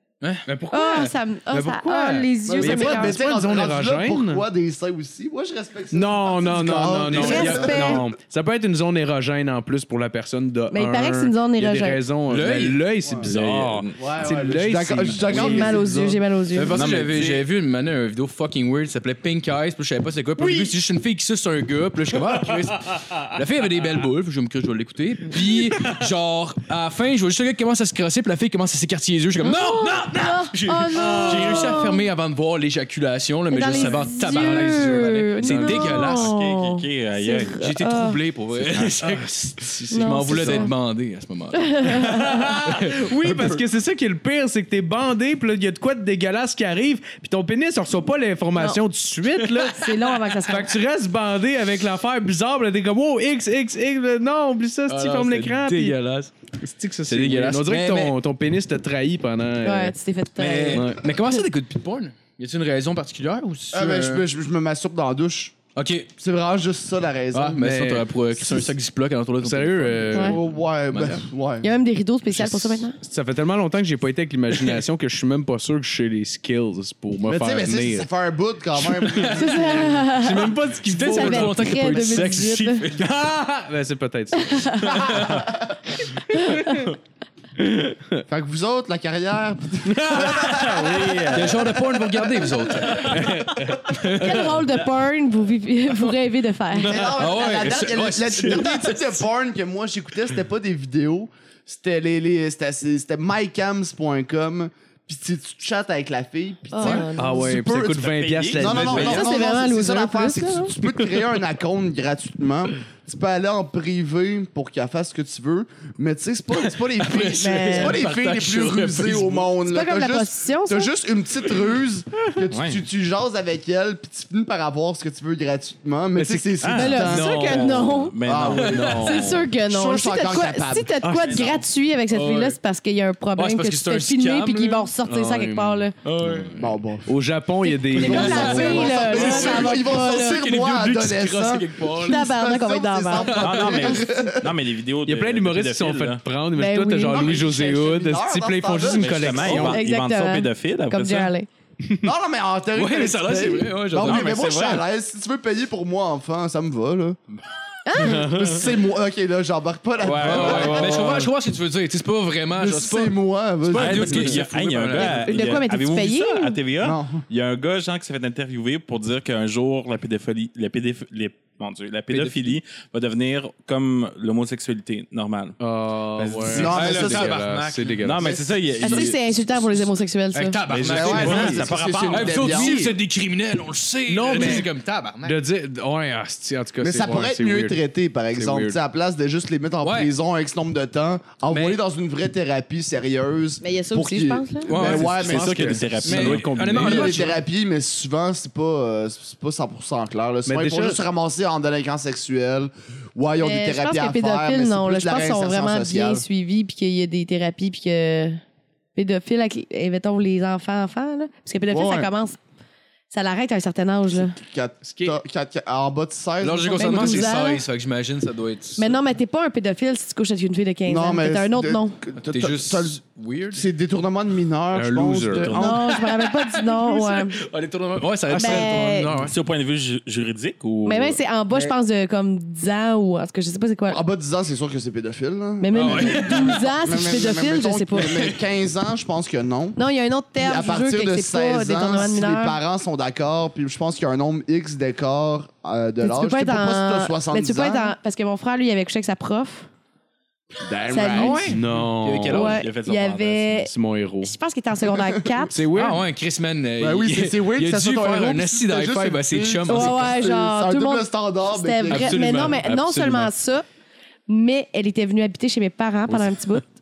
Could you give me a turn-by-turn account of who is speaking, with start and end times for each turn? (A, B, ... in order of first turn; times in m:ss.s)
0:00.2-0:01.1 A
0:00.5-0:04.4 B
0:00.7-0:03.2 C
0:02.4-0:08.0 D
0:05.9-0:15.8 B
0:07.1-0:07.7 A
0:07.1-0:08.0 C
0:10.7-0:12.0 C
0:12.3-0:12.9 A
0:13.2-0:14.0 E
0:14.0-0:16.2 D
0:15.3-0:16.8 C
0:16.5-0:36.3 A
0:16.7-0:17.4 E
0:29.4-0:32.0 C
0:31.0-0:31.5 B
0:33.5-0:38.2 C
0:34.4-0:34.8 B
0:35.4-0:35.9 B
0:35.6-0:37.7 E
0:37.6-0:43.6 A
0:38.6-0:39.0 E
0:39.0-0:40.7 B
0:39.9-0:40.7 C
0:41.5-0:42.5 C
0:42.2-0:49.8 B
0:49.5-0:50.7 C
0:50.5-0:56.0 B
0:54.9-0:56.3 A
0:56.6-1:00.0 B
0:57.1-0:58.1 A
0:59.6-1:01.4 C
1:00.4-1:04.2 A
1:00.7-1:01.1 B
1:03.7-1:05.6 D
1:05.8-1:06.1 A
1:06.2-1:07.6 D
1:07.3-1:10.4 A
1:07.6-1:08.7 B
1:09.4-1:10.4 B
1:10.2-1:11.7 D
1:10.9-1:11.2 A
1:11.6-1:13.0 C
1:12.3-1:18.1 B
1:17.3-1:20.0 D
1:19.1-1:19.9 A
1:19.3-1:22.9 C
1:20.0-1:22.2 B
1:20.8-1:23.3 A
1:22.9-1:25.3 B
1:24.4-1:25.2 C
1:25.2-1:25.5 E
1:26.2-1:26.9 C
1:27.6-1:28.2 B
1:28.3-1:31.4 D
1:30.0-1:30.6 B
1:30.5-1:31.7 E
1:31.3-1:33.2 A
1:32.1-1:32.5 D
1:32.9-1:34.5 B
1:33.9-1:34.6 A
1:34.2-1:37.2 C
1:36.8-2:07.3 D
1:36.9-1:39.2 A
1:46.7-1:47.5 C
1:46.8-1:49.2 B
1:47.8-1:49.3 E
1:48.8-1:49.1 A
1:48.9-1:50.7 C
1:56.6-1:59.5 A
1:57.4-1:58.0 C
1:59.6-2:00.9 C
2:02.5-2:02.8 E
2:06.2-2:07.7 B
2:06.6-2:09.3 E
2:06.7-2:08.1 C
2:08.2-2:10.9 D
2:08.5-2:09.3 A
2:08.9-2:15.9 C
2:11.0-2:11.5 B
2:11.3-2:11.6 E
2:12.1-2:12.6 A
2:13.4-2:14.9 A
2:15.1-2:19.0 B
2:16.0-2:16.5 A
2:16.6-2:17.2 D
2:17.6-2:20.4 C
2:17.9-2:24.5 D
2:18.0-2:22.2 A
2:22.1-2:23.9 C
2:23.2-2:23.7 A
2:23.3-2:26.2 E
2:25.1-2:29.8 B
2:26.5-2:27.4 C
2:27.0-2:29.6 D
2:28.9-2:31.3 E
2:29.5-2:31.5 C
2:31.8-2:32.1 B
2:32.0-2:37.2 D
2:32.8-2:34.5 A
2:34.0-2:34.8 E
2:37.9-2:38.4 C
2:38.0-2:41.1 D
2:38.0-2:38.5 B
2:40.0-2:45.6 A
2:40.3-2:41.2 B
2:40.3-2:41.2 E
2:42.6-2:44.4 D
2:43.8-2:55.6 E
2:45.0-2:46.6 C
2:46.8-2:47.2 D
2:52.1-2:52.4 A
2:55.6-2:58.3 B
2:56.2-2:57.0 E
2:56.5-2:57.4 D
2:56.6-2:58.1 A
2:58.0-2:59.2 E
2:58.2-2:59.2 D
2:58.8-3:00.6 C
3:00.3-3:05.4 A
3:00.7-3:02.8 E
3:00.7-3:02.9 D
3:04.1-3:04.7 B
3:05.2-3:07.8 B
3:06.8-3:16.0 D
3:08.4-3:08.8 B
3:09.8-3:10.1 A
3:11.5-3:11.8 A
3:13.6-3:14.7 C
3:14.7-3:15.1 A
3:14.7-3:17.3 B
3:14.8-3:16.8 E
3:16.0-3:17.4 A
3:16.7-3:26.2 D
3:20.5-3:21.0 B
3:23.4-3:28.4 C
3:29.0-3:32.4 C
3:31.7-3:32.1 D
3:33.1-3:34.4 C
3:34.2-3:37.3 D
3:36.4-3:39.0 A
3:36.8-3:37.6 C
3:38.8-3:42.0 C
3:40.9-3:43.0 D
3:42.2-3:43.6 A
3:43.5-3:45.8 D
3:44.7-3:45.6 B
3:45.4-3:45.9 E
3:45.5-3:47.4 C
3:45.9-3:49.4 A
3:48.3-3:48.9 B
3:48.3-3:49.2 C
3:49.2-3:51.2 E
3:50.8-3:54.0 C
3:53.9-3:59.8 D
3:55.6-3:58.3 C
3:55.7-3:56.7 A
3:59.8-4:02.6 C
4:00.4-4:08.0 D
4:06.0-4:09.7 C
4:10.6-4:11.5 D
4:10.9-4:11.6 C
4:11.1-4:12.6 A
4:11.5-4:12.5 B
4:12.3-4:13.7 C
4:12.5-4:13.7 E
4:13.6-4:14.4 B
4:14.2-4:15.6 C
4:14.9-4:15.4 D
4:15.5-4:16.0 B
4:15.7-4:20.2 A
4:16.8-4:22.5 D
4:19.7-4:23.6 C
4:21.9-4:23.3 B
4:24.3-4:26.6 C